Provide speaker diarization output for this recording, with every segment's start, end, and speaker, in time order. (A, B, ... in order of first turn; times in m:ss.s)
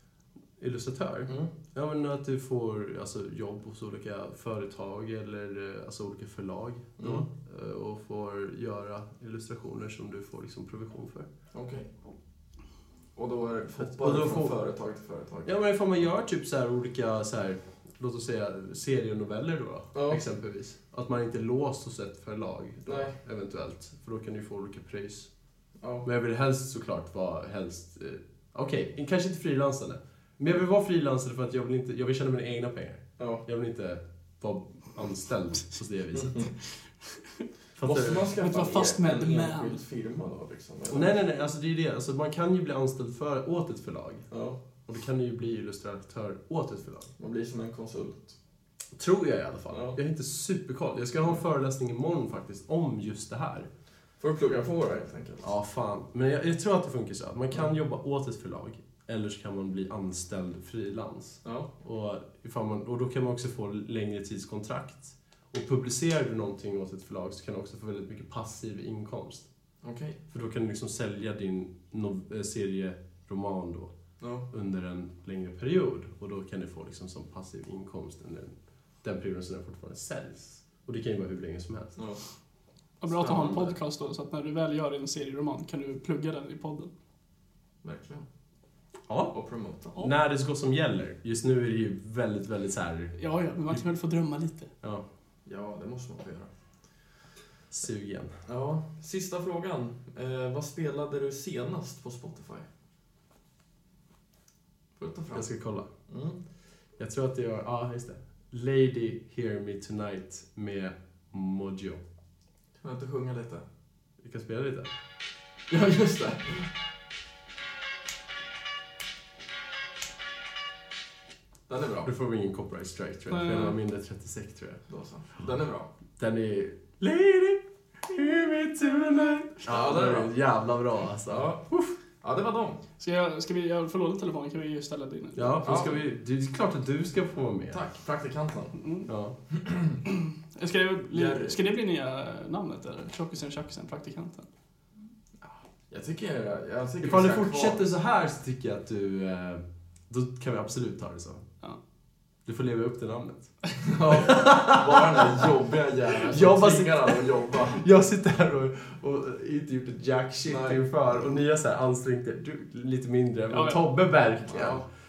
0:00.6-0:11.3 A
0:01.3-0:01.5 B
0:07.0-0:07.3 B
0:11.5-0:11.9 B
0:13.2-0:15.5 B
0:13.8-0:14.5 A
0:15.4-0:25.3 A
0:19.9-0:20.2 B
0:22.8-0:23.1 B
0:25.8-0:26.1 B
0:26.0-0:36.5 A
0:33.2-0:33.4 B
0:36.1-0:36.5 B
0:37.8-0:38.3 A
0:37.8-0:41.2 B
0:38.4-0:39.8 C
0:40.9-0:44.3 A
0:44.3-0:44.6 B
0:44.8-0:47.1 A
0:47.2-0:48.4 B
0:49.0-0:53.7 A
0:49.7-0:50.0 B
0:54.2-0:55.5 B
0:55.4-1:09.5 A
1:01.4-1:01.7 B
1:09.8-1:10.2 B
1:10.3-1:13.9 A
1:14.2-1:14.5 B
1:14.5-1:22.0 A
1:22.0-1:22.2 B
1:23.0-1:26.9 C
1:23.1-1:23.8 B
1:27.8-1:28.3 B
1:29.1-1:29.4 A
1:29.3-1:30.0 B
1:30.0-1:33.2 A
1:33.2-1:34.7 C
1:35.4-1:36.5 B
1:37.7-1:38.3 A
1:38.4-1:42.7 B
1:45.0-1:45.5 B
1:45.3-1:45.9 A
1:46.1-1:46.4 B
1:47.0-1:52.0 A
1:52.8-1:53.6 B
1:54.2-1:54.9 A
1:55.7-1:56.7 B
2:01.7-2:02.1 B
2:02.0-2:04.8 A
2:03.3-2:03.8 C
2:04.9-2:05.9 B
2:06.2-2:11.9 A
2:09.6-2:10.3 B
2:11.3-2:11.6 B
2:12.2-2:12.8 B
2:13.0-2:15.6 C
2:15.4-2:17.8 A
2:15.6-2:16.0 B
2:17.7-2:18.8 B
2:18.8-2:19.1 C
2:19.1-2:19.4 A
2:19.5-2:20.0 B
2:20.1-2:24.5 C
2:21.1-2:21.6 B
2:25.4-2:27.9 B
2:27.0-2:31.4 A
2:32.4-2:33.5 A
2:33.8-2:37.9 B
2:34.1-2:35.5 A
2:36.2-2:44.8 A
2:40.4-2:40.8 B
2:43.5-2:43.8 C
2:44.4-2:44.9 B